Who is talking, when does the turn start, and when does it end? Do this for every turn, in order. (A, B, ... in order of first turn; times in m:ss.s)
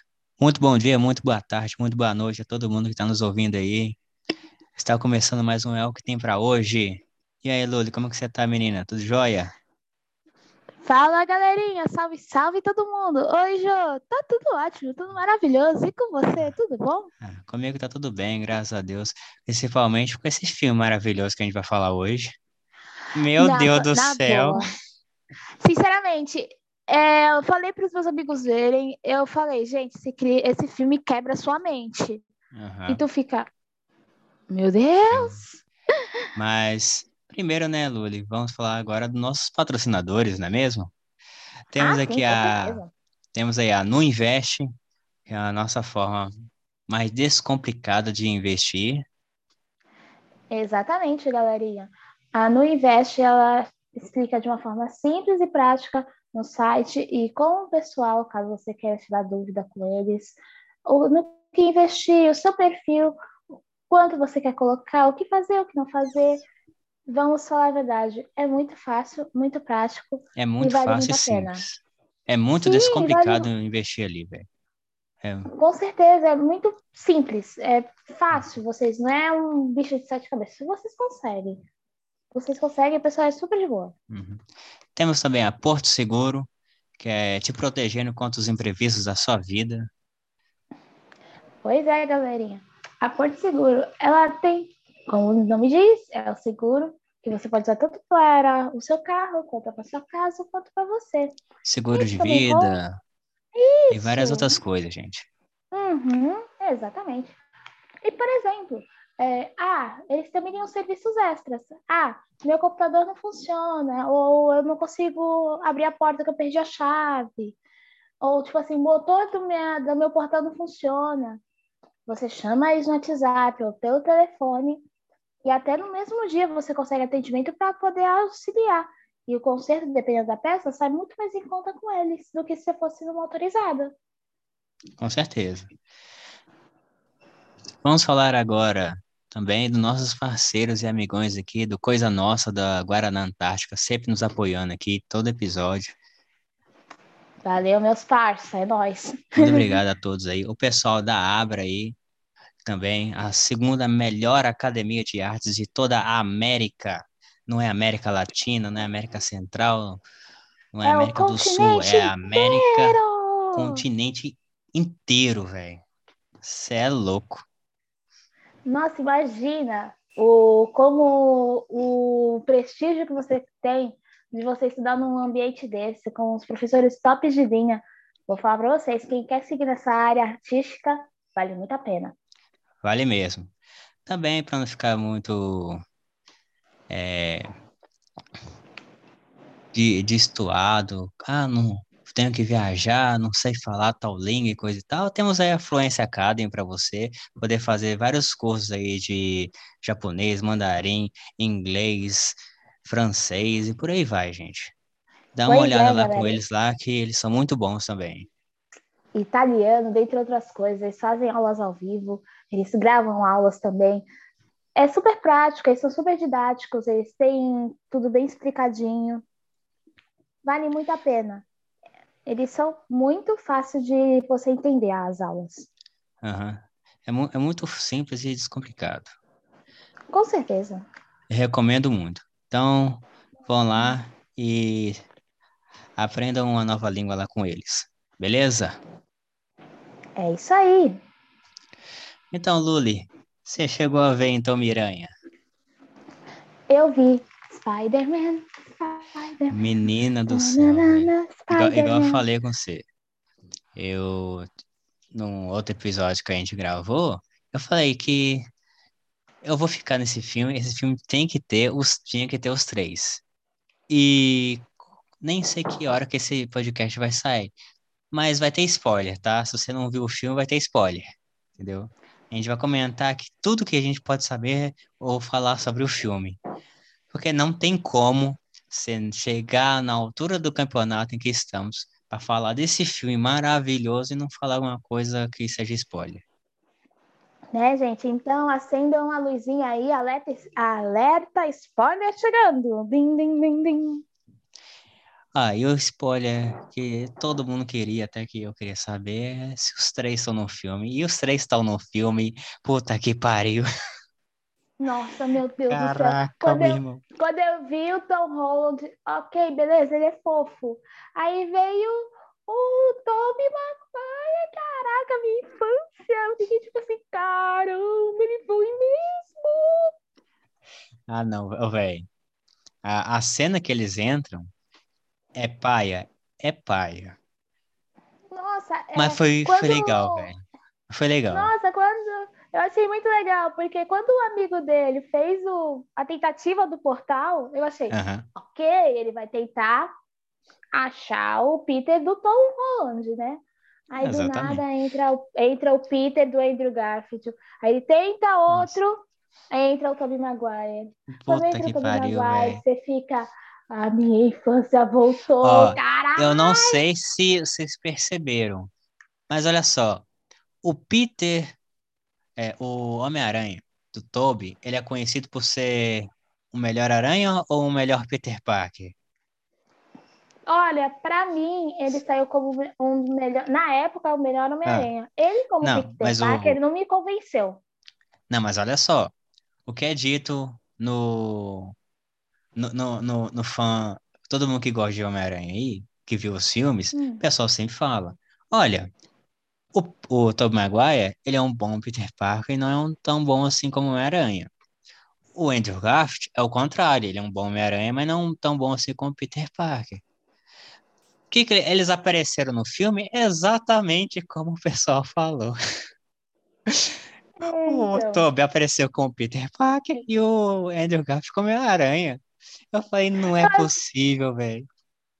0:00.4-0:04.0 A
0:04.8-0:09.5 A
0:10.8-0:17.1 B
0:17.2-0:22.3 A
0:23.1-0:24.6 A
0:23.4-0:24.7 B
0:25.6-0:32.2 B
0:32.5-0:33.0 A
0:32.9-0:33.5 B
0:34.5-0:35.6 B
0:35.1-0:35.4 A
0:36.4-0:40.9 A
0:41.7-0:42.8 A
0:41.8-0:42.9 B
0:43.3-0:44.7 A
0:45.3-0:46.3 A
0:46.9-0:49.0 A
0:50.5-1:03.2 B
1:03.9-1:06.4 B
1:07.1-1:11.6 B
1:10.4-1:14.4 A
1:12.6-1:13.5 B
1:15.2-1:15.5 A
1:15.5-1:21.6 B
1:22.3-1:23.9 B
1:24.1-1:29.9 A
1:31.6-1:41.4 B
1:41.6-1:43.0 A
1:41.9-1:42.8 B
1:43.5-1:44.6 B
1:43.9-1:45.3 A
1:45.7-1:47.3 B
1:48.0-1:57.6 B
1:58.2-2:01.4 B
2:02.0-2:04.8 B
2:05.4-2:13.9 B
2:15.0-2:15.7 A
2:17.8-2:26.0 A
2:27.4-2:29.8 B
2:29.4-2:32.0 A
2:32.6-2:40.0 A
2:40.7-2:43.0 A
2:40.8-2:43.8 B
2:43.5-2:45.8 A
2:46.4-2:47.4 A
2:48.6-3:02.1 B
3:02.8-3:03.5 A
3:04.0-3:05.8 A
3:06.9-3:07.5 A
3:09.7-3:24.7 A
3:25.3-3:28.3 A
3:25.5-3:26.4 B
3:29.1-3:34.1 B
3:34.8-3:39.2 B
3:40.4-3:41.4 B
3:42.2-3:45.7 B
3:46.2-3:49.1 A
3:50.1-3:50.8 B
3:51.3-3:55.0 A
3:56.0-3:58.8 A
4:00.2-4:01.0 B
4:02.3-4:05.1 A
4:06.7-4:09.6 B
4:09.5-4:12.8 A
4:10.3-4:12.2 B
4:13.8-4:14.5 A
4:15.1-4:18.5 A
4:19.4-4:23.2 A
4:23.9-4:24.7 A
4:25.2-4:27.5 A
4:28.1-4:36.4 A
4:37.1-4:46.2 A
4:47.5-4:54.0 B
4:55.3-5:03.6 A
5:04.8-5:19.9 B
5:05.7-5:07.0 A
5:21.1-5:22.1 A
5:22.8-5:24.5 A
5:25.4-5:27.2 A
5:28.3-5:30.3 B
5:28.9-5:31.5 A
5:31.3-5:39.9 B
5:37.9-5:38.3 A
5:40.7-5:56.8 B
5:44.0-5:44.6 A
5:48.5-5:48.8 A
5:51.1-5:52.6 A
5:55.4-5:58.7 A
5:59.3-6:00.0 A
6:00.6-6:01.6 A
6:02.4-6:08.9 A
6:10.5-6:17.6 B
6:15.6-6:16.6 A
6:18.3-6:19.1 A
6:19.6-6:21.7 A
6:22.6-6:28.9 A
6:26.9-6:27.2 B
6:29.7-6:34.5 A
6:35.3-6:40.0 A
6:41.3-6:45.6 A
6:46.7-6:54.7 A
6:47.4-6:48.2 B
6:53.4-6:53.7 B